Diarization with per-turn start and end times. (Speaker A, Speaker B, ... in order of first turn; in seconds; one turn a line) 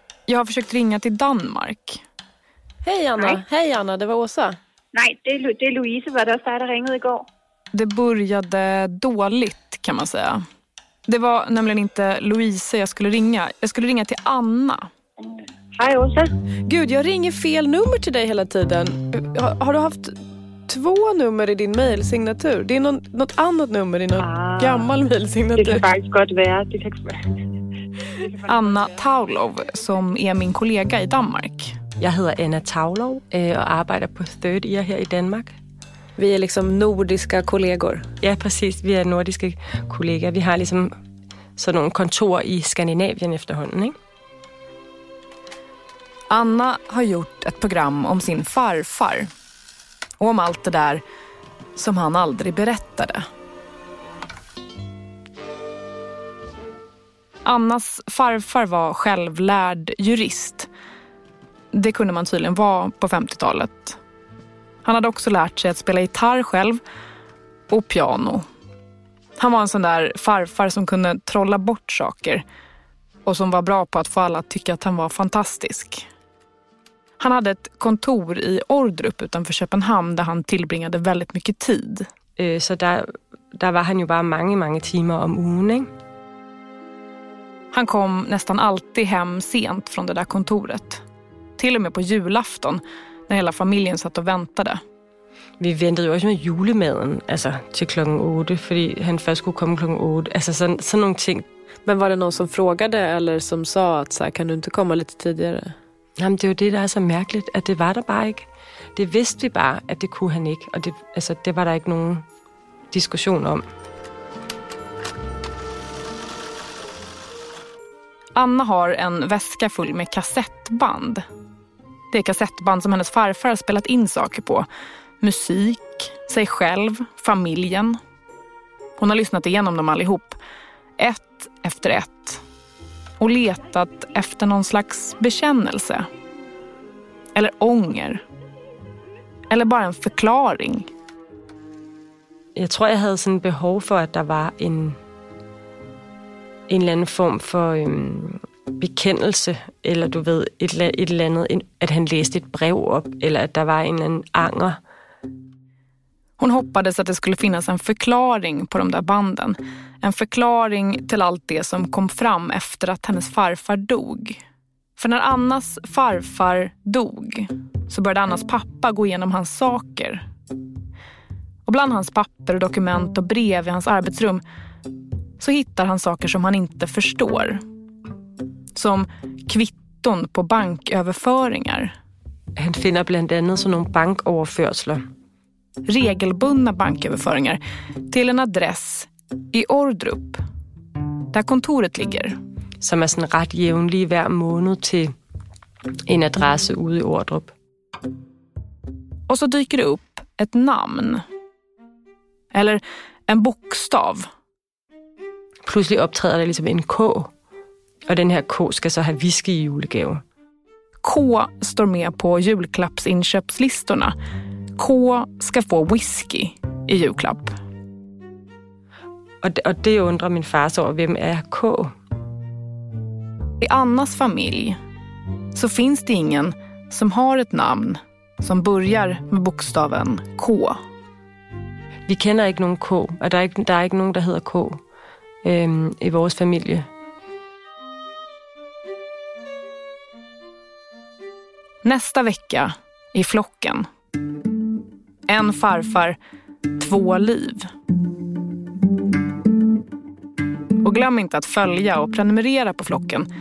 Speaker A: 0.3-2.0
Speaker B: 2.8-4.6
Speaker C: 4.9-7.2
Speaker A: 7.7-10.4
Speaker A: 11.1-14.8
Speaker C: 15.8-16.3
Speaker B: 16.7-20.1
Speaker B: 20.7-25.8
Speaker C: 24.2-25.0
Speaker C: 25.6-27.2
Speaker A: 28.5-31.8
Speaker D: 32.0-35.6
Speaker B: 36.2-38.1
Speaker D: 38.2-40.9
Speaker D: 41.6-43.9
Speaker A: 46.3-49.3
Speaker A: 50.2-51.0
Speaker A: 51.8-53.2
Speaker A: 57.5-60.7
Speaker A: 61.7-64.0
Speaker A: 64.8-66.8
Speaker A: 67.7-68.4
Speaker A: 69.4-72.4
Speaker A: 73.3-76.1
Speaker A: 77.2-82.1
Speaker D: 82.4-85.9
Speaker A: 87.7-91.0
Speaker A: 91.6-94.8
Speaker D: 95.6-101.5
Speaker B: 101.9-105.8
Speaker D: 106.2-112.2
Speaker D: 112.9-113.6
Speaker A: 118.4-121.2
Speaker A: 122.1-124.7
Speaker A: 125.2-128.0
Speaker A: 129.0-130.4
Speaker A: 131.0-132.4
Speaker A: 133.2-136.1
Speaker A: 137.3-138.2
Speaker A: 139.5-140.9
Speaker D: 142.6-145.0
Speaker D: 146.7-154.8
Speaker A: 156.4-164.4
Speaker A: 165.0-170.2
Speaker A: 171.7-174.4
Speaker A: 175.4-177.6
Speaker A: 178.7-181.9
Speaker D: 182.6-185.0
Speaker A: 185.9-190.4
Speaker A: 191.3-192.3
Speaker D: 192.8-195.1
Speaker D: 196.1-197.5
Speaker A: 199.3-201.2
Speaker A: 202.5-204.2
Speaker D: 205.6-207.3
Speaker D: 208.1-210.2
Speaker A: 211.0-214.1
Speaker A: 214.8-217.5
Speaker D: 219.4-221.9
Speaker A: 223.6-224.8
Speaker A: 225.5-230.8
Speaker D: 232.1-234.8
Speaker D: 235.4-236.8
Speaker A: 241.8-243.9
Speaker A: 245.3-246.2
Speaker A: 246.8-247.7
Speaker A: 250.8-253.3